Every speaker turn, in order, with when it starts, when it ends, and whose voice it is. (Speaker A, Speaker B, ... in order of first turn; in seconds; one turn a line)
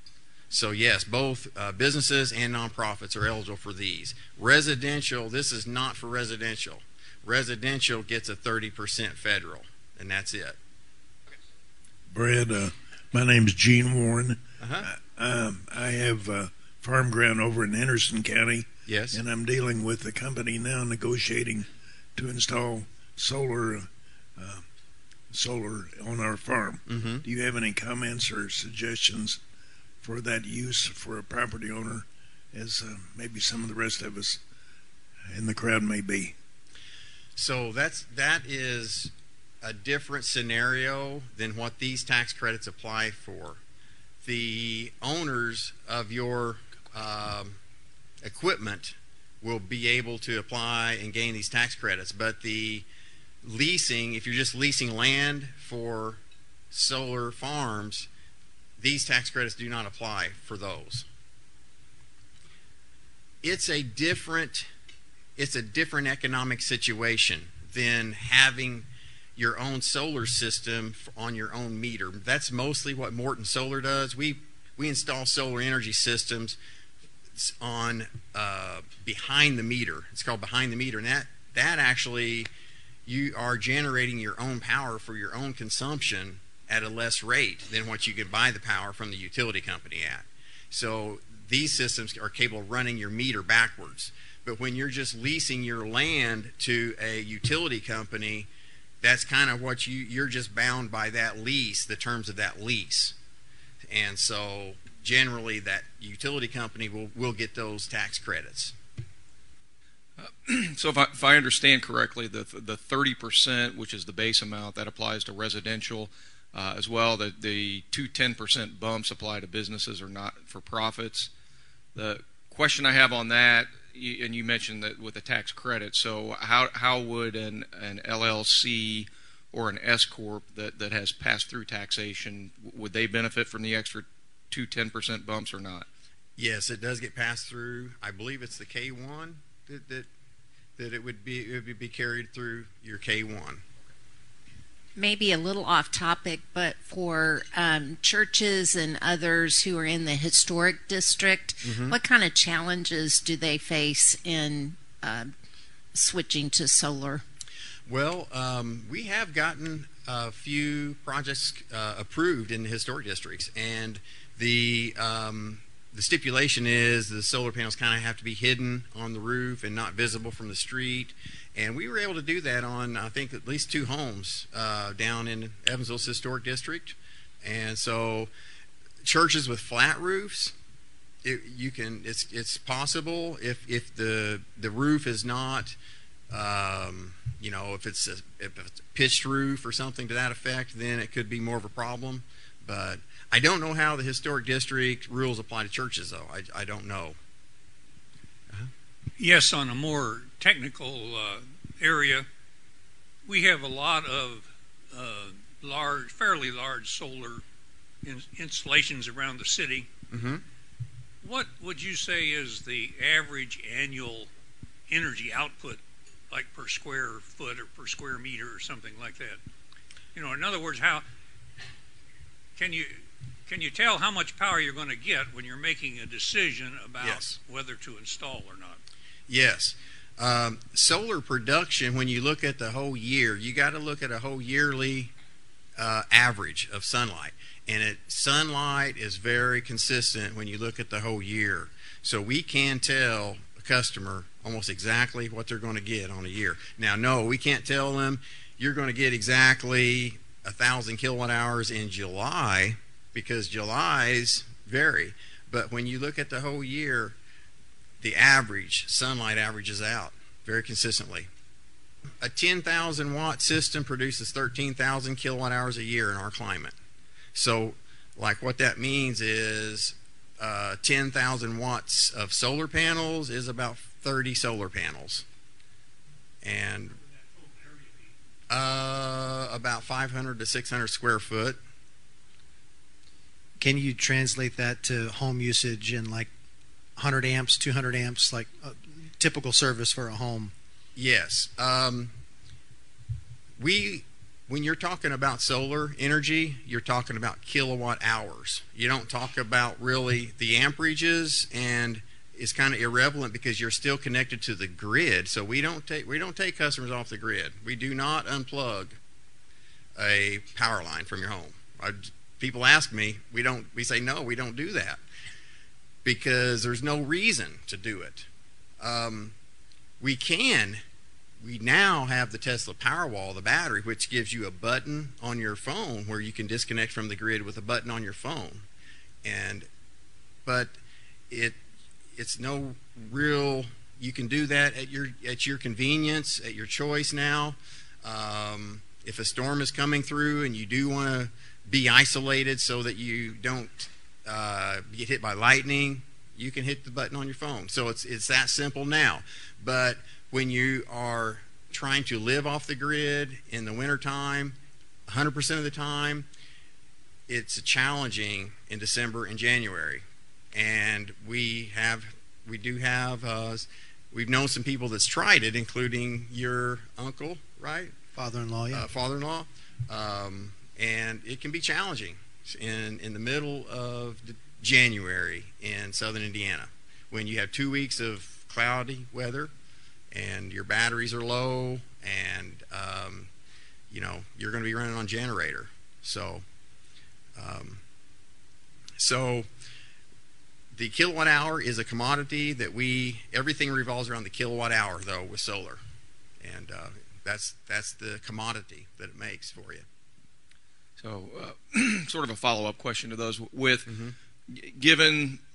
Speaker A: 0.5-10.6
Speaker B: 12.1-24.6
Speaker A: 14.6-14.9
Speaker A: 18.9-19.2
Speaker B: 25.3-29.4
Speaker A: 26.9-27.2
Speaker B: 30.0-34.4
Speaker B: 35.3-36.4
Speaker A: 37.4-43.6
Speaker A: 44.2-47.6
Speaker A: 48.2-52.9
Speaker A: 53.4-56.2
Speaker A: 56.7-58.1
Speaker A: 58.8-61.1
Speaker A: 63.4-64.7
Speaker A: 65.4-76.6
Speaker A: 77.4-82.5
Speaker A: 83.1-98.5
Speaker A: 99.0-103.2
Speaker A: 103.9-108.8
Speaker C: 110.2-121.3
Speaker C: 122.0-135.9
Speaker A: 136.4-140.1
Speaker A: 140.8-143.6
Speaker D: 145.0-155.3
Speaker A: 151.6-152.0
Speaker D: 155.9-157.2
Speaker A: 157.9-178.3
Speaker A: 179.0-180.5
Speaker A: 181.2-185.8
Speaker A: 186.3-197.2
Speaker E: 199.2-202.3
Speaker E: 203.2-207.4
Speaker E: 208.0-209.9
Speaker A: 210.1-210.4
Speaker E: 211.2-214.3
Speaker E: 214.9-219.4
Speaker E: 220.1-221.1
Speaker E: 222.6-228.8
Speaker A: 227.0-227.4
Speaker A: 229.3-235.1
Speaker A: 235.8-257.2
Speaker A: 258.0-261.3
Speaker A: 262.2-266.8
Speaker A: 267.4-275.2
Speaker A: 276.4-277.0
Speaker E: 277.0-278.1
Speaker A: 278.5-281.6
Speaker F: 283.6-286.3
Speaker F: 287.0-290.5
Speaker A: 291.0-292.1
Speaker A: 293.6-309.0
Speaker A: 310.0-315.0
Speaker A: 316.1-318.3
Speaker A: 318.8-319.4
Speaker A: 320.0-320.8
Speaker A: 321.4-328.6
Speaker A: 329.2-329.7
Speaker A: 330.5-330.8
Speaker A: 331.3-331.6
Speaker A: 332.2-354.6
Speaker A: 355.1-356.3
Speaker A: 357.3-367.9
Speaker F: 368.1-368.9
Speaker A: 368.7-379.5
Speaker A: 380.1-383.3
Speaker A: 383.9-386.4
Speaker A: 387.4-387.8
Speaker A: 389.0-389.5
Speaker A: 390.7-395.8
Speaker A: 396.4-399.9
Speaker C: 401.0-403.9
Speaker A: 403.9-404.1
Speaker C: 404.5-405.4